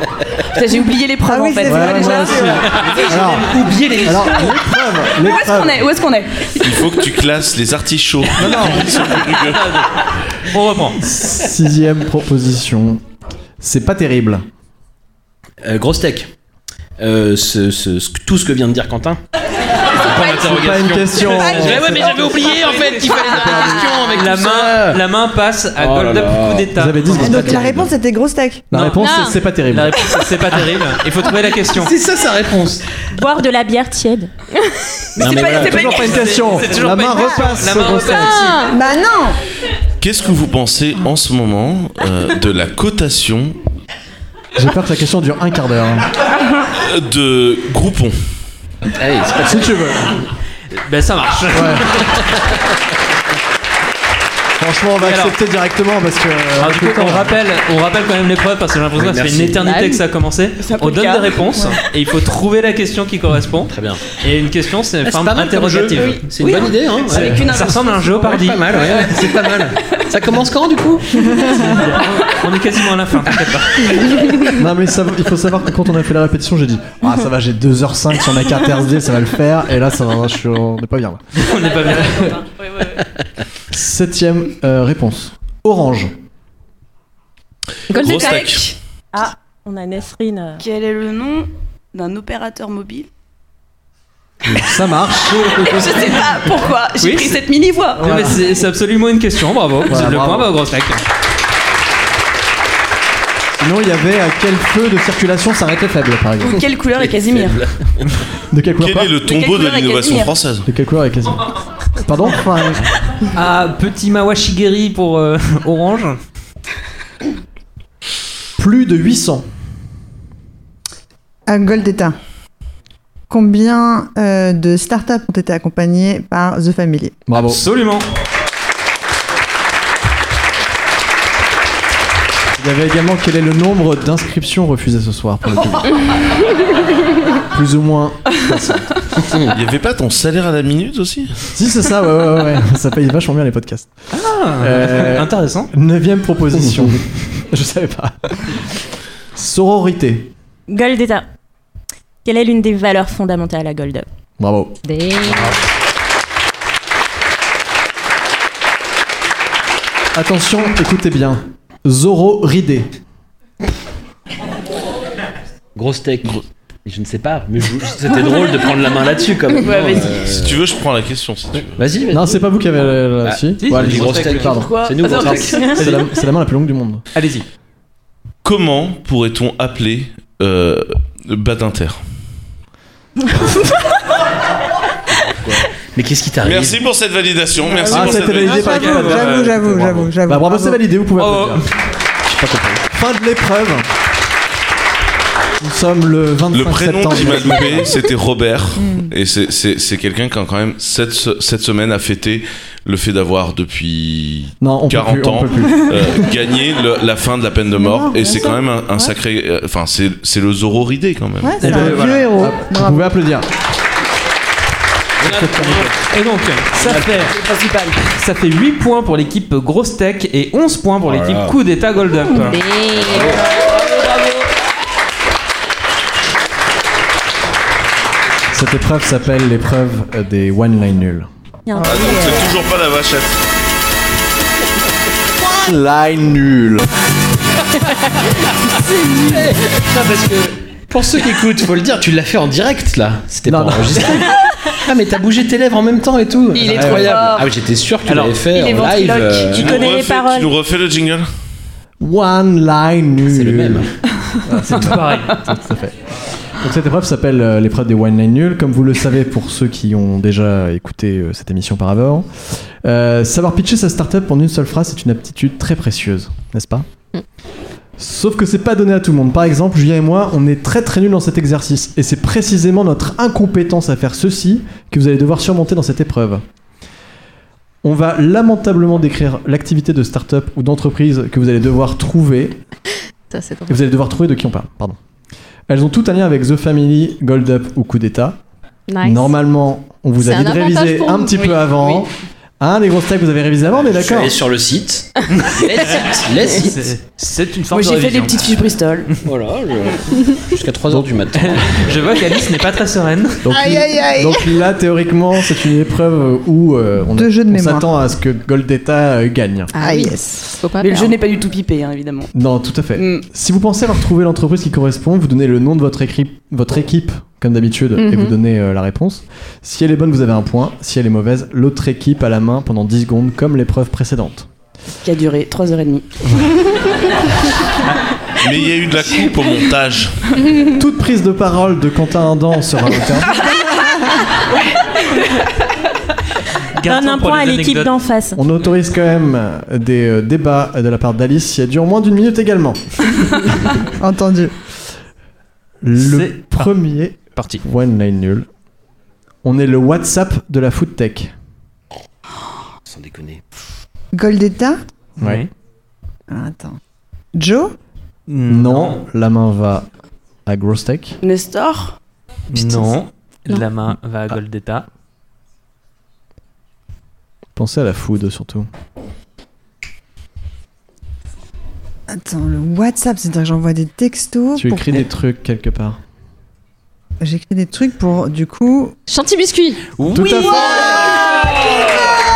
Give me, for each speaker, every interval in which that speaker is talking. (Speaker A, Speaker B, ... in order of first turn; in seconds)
Speaker A: 0.5-2.6, 5.1-6.9, 22.5-22.9, 35.2-36.5, 60.6-61.8, 66.4-69.4, 71.3-71.6, 81.6-83.0, 90.6-93.1, 95.3-98.1, 106.4-107.6, 109.2-110.3, 169.6-170.2, 174.2-175.8, 216.8-218.0, 223.5-224.4, 246.5-247.5, 248.4-249.6, 291.4-292.0, 297.7-299.1, 310.8-312.3, 312.9-313.2, 325.0-326.2, 361.2-361.9
Speaker B: 1.2-2.7, 27.2-28.7, 38.6-39.4, 121.5-122.2, 123.3-127.2, 187.9-190.8, 198.8-199.1, 207.7-209.1, 211.4-213.1, 231.8-232.1, 303.5-304.5, 307.1-307.9, 309.8-310.4, 344.0-344.5, 354.1-354.8, 356.3-356.8, 357.3-357.8, 372.1-375.0, 377.2-378.9, 380.5-381.2
Speaker C: 1.6-5.9, 8.4-9.0, 11.0-13.0, 13.6-14.4, 20.2-22.4, 26.7-27.9, 28.7-30.0, 35.6-38.5, 44.5-46.1, 49.4-50.1, 51.5-51.9, 54.6-57.3, 74.5-81.5, 83.7-86.1, 94.4-96.2, 98.0-98.4, 99.9-100.5, 103.6-106.6, 108.5-109.1, 110.7-112.8, 118.6-119.4, 127.3-127.6, 132.6-136.0, 137.5-138.9, 141.5-143.9, 144.6-148.6, 149.3-150.3, 154.4-155.4, 160.1-162.9, 172.1-174.7, 175.7-177.0, 187.9-191.7, 192.2-193.9, 195.6-197.9, 204.6-206.3, 211.6-213.5, 215.2-215.9, 228.5-231.3, 235.5-236.9, 243.4-244.2, 246.7-247.3, 252.0-253.9, 254.4-255.9, 256.5-266.9, 268.0-276.4, 277.8-282.6, 283.7-285.0, 285.7-288.4, 289.0-294.4, 303.4-309.8, 312.3-324.5, 330.7-333.5, 338.3-342.8, 345.8-348.5, 349.4-351.3, 355.2-355.4, 358.5-359.9, 360.4-361.2, 367.6-368.7, 374.6-376.0, 380.1-381.2
Speaker D: 2.7-3.4, 9.6-9.9, 10.5-11.1, 20.0-21.9, 22.8-23.1, 24.1-27.6, 28.7-31.9, 35.7-38.5, 50.9-52.2, 55.0-55.4, 56.6-66.3, 67.0-68.7, 71.4-74.3, 81.4-82.4, 97.0-97.4, 98.0-101.0, 113.3-116.2, 127.4-128.1, 144.1-145.7, 173.6-174.5, 175.2-176.1, 177.1-177.4, 188.3-190.1, 191.2-191.6, 211.6-212.3, 216.1-217.3, 218.1-222.6, 248.1-248.3, 254.7-255.3, 295.5-295.8, 296.5-298.6, 301.3-303.4, 336.8-338.0, 346.0-346.7, 347.4-347.6, 355.2-355.5, 358.3-359.0, 362.5-364.9, 380.0-380.5
Speaker E: 2.8-4.6, 15.6-16.3, 17.0-19.2, 20.1-25.0, 25.8-26.7, 31.2-32.8, 35.2-36.0, 49.0-49.9, 58.9-60.0, 63.7-64.0, 65.0-71.2, 107.0-107.7, 165.7-170.6, 171.7-172.4, 173.2-175.7, 185.5-186.8, 215.2-215.9, 221.0-221.6, 222.9-223.5, 239.2-249.8, 253.3-253.9, 293.8-296.9, 299.2-301.9, 352.8-353.4
Speaker F: 6.6-9.9, 40.0-43.6, 46.8-48.1, 87.9-88.7, 108.8-110.7, 139.5-141.4, 170.3-171.8, 178.4-182.0, 186.4-188.7, 196.5-211.8, 231.8-233.4, 249.5-251.3, 328.4-330.2
Speaker G: 29.0-29.4, 38.1-38.7, 87.9-88.7, 154.8-155.5, 222.4-223.4, 283.3-283.8, 288.9-289.3, 290.2-291.5, 309.7-311.1, 317.9-318.4, 379.1-379.8, 380.5-380.9
Speaker H: 33.1-34.3, 89.1-90.6, 150.7-151.2, 152.2-154.1, 231.7-232.5, 249.6-250.5, 336.9-338.4